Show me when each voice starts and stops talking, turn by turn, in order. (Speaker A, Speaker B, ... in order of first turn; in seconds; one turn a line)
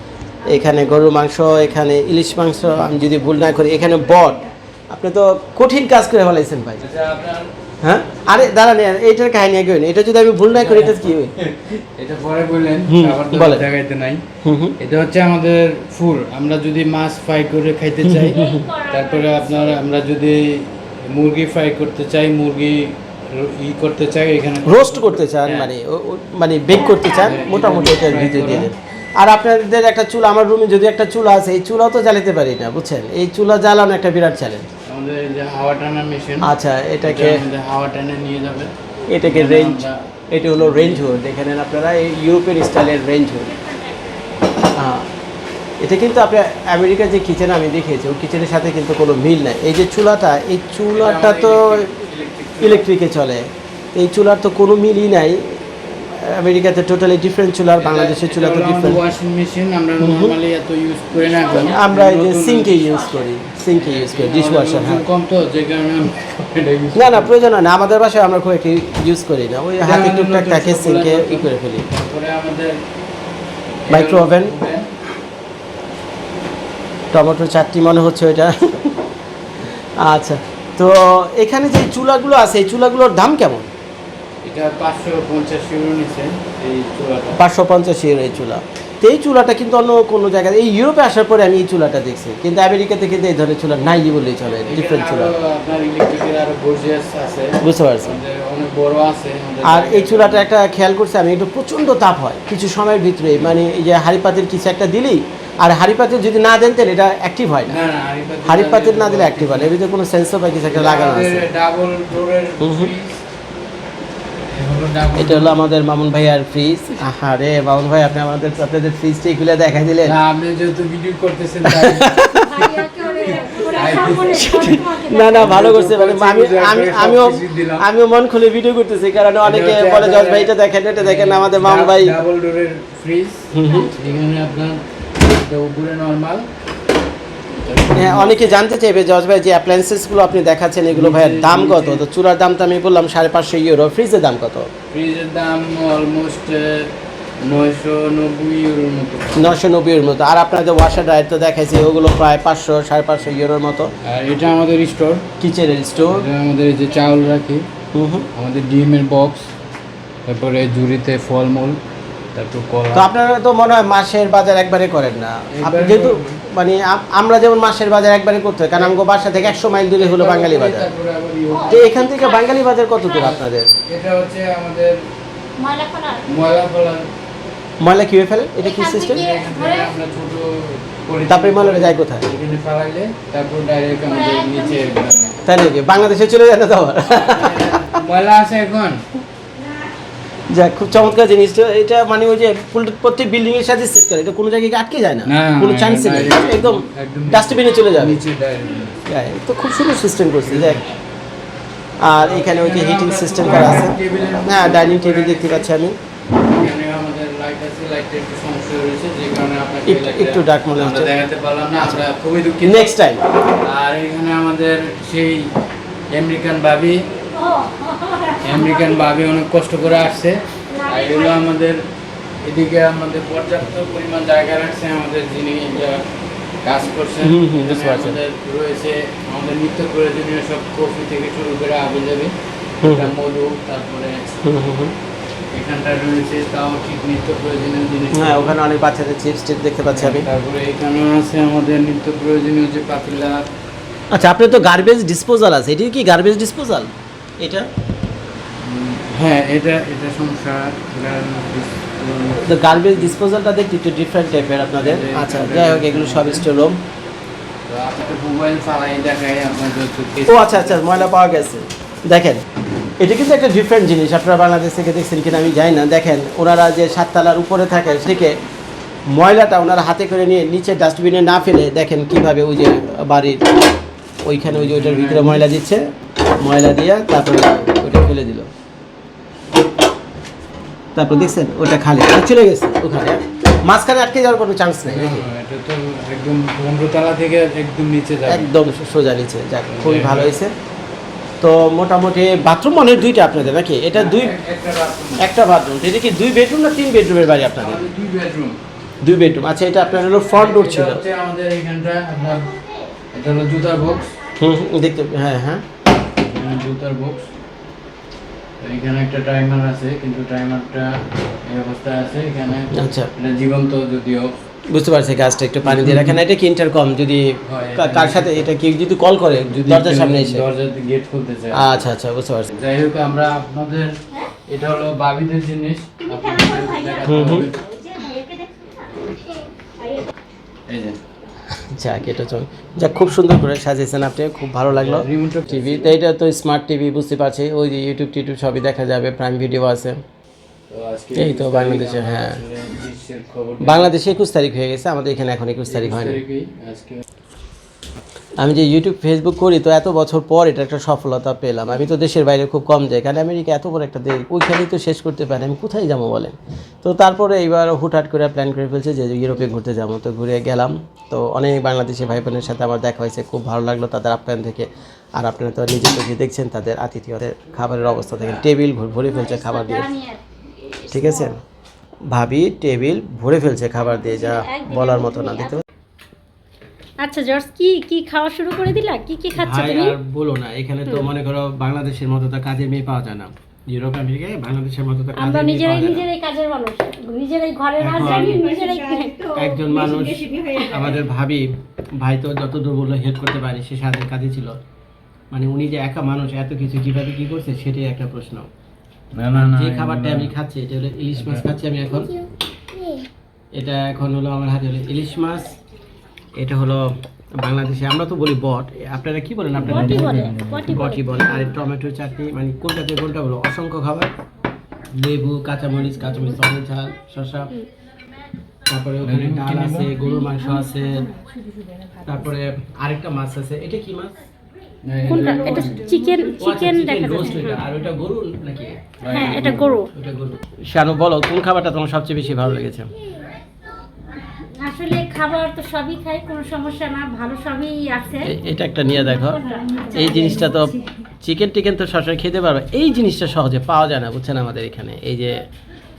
Speaker A: 0.4-6.8
Speaker B: 6.8-7.5
Speaker A: 7.8-11.3
Speaker B: 10.5-14.2
Speaker A: 12.9-13.7
Speaker A: 14.4-14.7
Speaker B: 14.8-25.7
Speaker A: 18.0-18.6
Speaker C: 18.3-19.8
Speaker A: 24.6-34.7
Speaker B: 27.1-28.7
Speaker B: 34.9-38.7
Speaker A: 36.4-37.4
Speaker A: 39.1-43.5
Speaker B: 39.2-41.2
Speaker C: 43.4-44.6
Speaker A: 44.7-45.1
Speaker A: 45.8-51.9
Speaker B: 50.9-52.9
Speaker A: 52.6-59.0
Speaker B: 57.8-62.9
Speaker A: 60.0-60.3
Speaker C: 61.1-61.8
Speaker A: 61.6-65.0
Speaker C: 62.8-63.2
Speaker B: 63.7-67.3
Speaker A: 66.9-71.8
Speaker B: 69.8-72.8
Speaker B: 73.8-74.9
Speaker A: 73.9-74.5
Speaker A: 77.1-79.0
Speaker A: 80.0-83.7
Speaker B: 84.4-87.4
Speaker A: 87.3-95.3
Speaker B: 94.6-100.5
Speaker A: 97.6-98.2
Speaker A: 99.6-107.8
Speaker B: 107.7-109.7
Speaker A: 108.4-111.5
Speaker B: 110.7-113.2
Speaker A: 112.6-112.9
Speaker B: 114.5-115.5
Speaker A: 115.2-120.2
Speaker B: 120.0-122.2
Speaker A: 121.7-122.8
Speaker C: 122.3-125.5
Speaker B: 123.2-127.9
Speaker A: 124.2-132.2
Speaker B: 129.4-136.5
Speaker A: 133.5-133.9
Speaker C: 133.6-133.9
Speaker B: 137.6-138.6
Speaker A: 137.9-144.7
Speaker B: 140.9-142.0
Speaker B: 144.9-149.6
Speaker A: 149.4-153.9
Speaker B: 154.0-155.3
Speaker A: 155.4-156.2
Speaker B: 156.1-157.7
Speaker A: 157.9-158.3
Speaker B: 158.3-159.5
Speaker B: 160.2-161.8
Speaker B: 162.3-163.1
Speaker A: 162.9-170.9
Speaker B: 165.5-166.4
Speaker B: 168.7-172.0
Speaker C: 171.5-173.3
Speaker A: 171.7-173.7
Speaker B: 173.1-175.0
Speaker C: 175.6-176.3
Speaker B: 176.3-177.1
Speaker A: 177.8-179.3
Speaker C: 178.6-179.9
Speaker B: 179.2-185.3
Speaker A: 181.3-182.3
Speaker C: 184.1-185.1
Speaker A: 185.4-187.9
Speaker B: 187.2-189.1
Speaker A: 190.5-198.2
Speaker B: 195.2-199.0
Speaker A: 199.0-200.9
Speaker B: 200.4-200.8
Speaker A: 202.0-206.0
Speaker B: 202.0-205.7
Speaker B: 206.4-212.9
Speaker A: 209.8-211.1
Speaker A: 212.6-213.2
Speaker B: 213.5-215.5
Speaker B: 216.1-217.1
Speaker C: 217.2-219.1
Speaker B: 218.4-221.8
Speaker C: 220.7-221.4
Speaker B: 222.4-226.0
Speaker B: 226.6-234.3
Speaker A: 227.2-228.2
Speaker A: 232.8-233.1
Speaker A: 234.4-234.9
Speaker B: 235.5-238.6
Speaker A: 238.1-240.3
Speaker B: 239.9-243.5
Speaker A: 244.1-247.7
Speaker B: 248.6-253.2
Speaker A: 252.4-256.8
Speaker B: 254.7-256.5
Speaker B: 257.7-261.3
Speaker A: 260.2-262.4
Speaker A: 263.0-268.4
Speaker A: 269.1-273.5
Speaker A: 274.2-278.5
Speaker B: 274.4-275.4
Speaker A: 280.9-285.2
Speaker B: 284.9-288.6
Speaker A: 288.2-290.5
Speaker B: 289.7-290.4
Speaker A: 291.4-294.4
Speaker B: 293.9-295.3
Speaker A: 295.2-297.9
Speaker B: 297.6-298.6
Speaker A: 299.0-301.0
Speaker B: 299.8-302.6
Speaker B: 303.1-304.2
Speaker A: 304.4-305.6
Speaker B: 306.2-307.3
Speaker B: 308.6-314.3
Speaker A: 312.7-313.1
Speaker A: 314.7-320.4
Speaker B: 315.6-316.2
Speaker B: 317.5-318.5
Speaker B: 319.5-321.9
Speaker A: 321.5-322.5
Speaker B: 322.5-327.6
Speaker C: 326.3-328.7
Speaker A: 327.0-327.5
Speaker B: 330.7-331.0
Speaker A: 331.5-340.0
Speaker B: 334.7-335.9
Speaker B: 340.7-343.9
Speaker A: 341.1-342.4
Speaker A: 343.6-346.2
Speaker B: 345.7-347.0
Speaker A: 348.4-369.9
Speaker C: 369.1-371.3
Speaker A: 370.9-371.4
Speaker A: 372.1-375.6
Speaker C: 374.0-375.6
Speaker C: 377.0-380.0
Speaker A: 379.3-386.1
Speaker C: 385.1-389.4
Speaker A: 387.8-388.4
Speaker A: 389.3-394.6
Speaker A: 395.3-398.5
Speaker B: 399.1-400.3
Speaker A: 399.3-402.3
Speaker B: 401.1-401.4
Speaker A: 403.5-405.6
Speaker A: 406.4-414.1
Speaker B: 409.6-410.8
Speaker C: 409.6-411.5
Speaker A: 414.9-417.5
Speaker A: 418.7-421.1
Speaker B: 419.0-419.9
Speaker A: 422.0-424.2
Speaker B: 424.8-425.9
Speaker C: 425.1-427.6
Speaker A: 426.4-432.9
Speaker B: 429.0-429.7
Speaker C: 429.1-429.9
Speaker C: 434.6-438.4
Speaker A: 438.2-445.4
Speaker C: 439.1-440.6